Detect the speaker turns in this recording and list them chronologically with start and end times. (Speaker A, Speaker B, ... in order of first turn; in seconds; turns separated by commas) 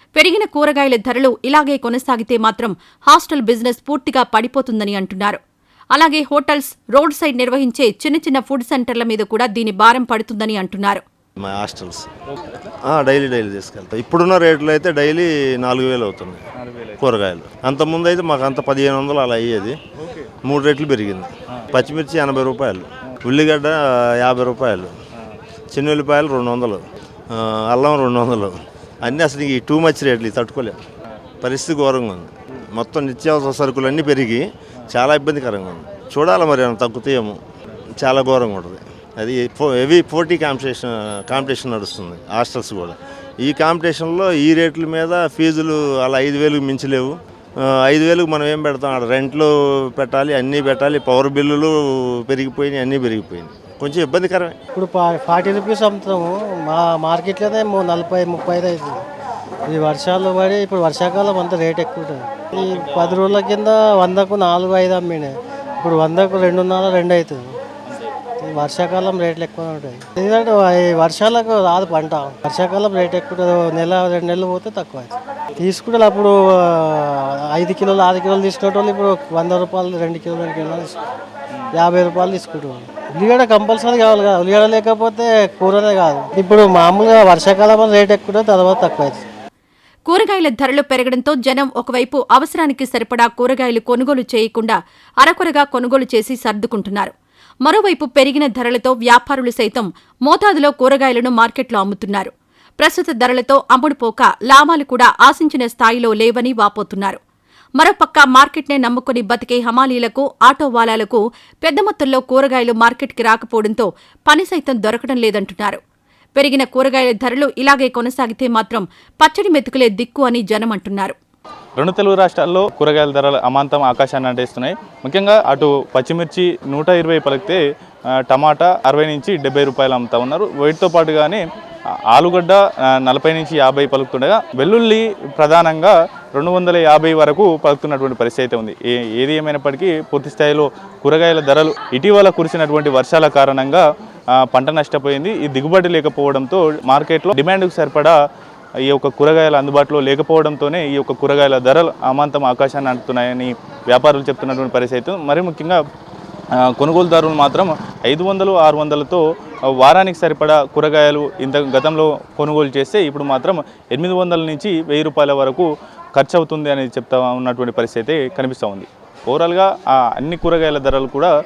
Speaker A: 0.1-5.4, Speaker A: 5.9-11.0, Speaker B: 11.4-12.1, Speaker C: 12.4-12.7, Speaker B: 12.9-16.4, Speaker C: 16.6-17.0, Speaker B: 17.0-19.8, Speaker B: 20.4-24.9, Speaker B: 25.7-30.8, Speaker B: 31.4-37.4, Speaker B: 38.0-51.7, Speaker B: 52.2-54.5, Speaker D: 54.7-59.0, Speaker D: 59.7-67.5, Speaker C: 62.7-63.4, Speaker D: 68.4-80.9, Speaker D: 81.7-89.2, Speaker A: 90.0-97.1, Speaker A: 97.6-107.2, Speaker A: 107.8-115.8, Speaker A: 116.3-121.2, Speaker C: 121.8-127.6, Speaker C: 128.3-131.4, Speaker C: 132.1-143.8, Speaker C: 144.5-148.1, Speaker C: 148.9-155.8, Speaker C: 156.7-159.2, Speaker C: 159.8-171.3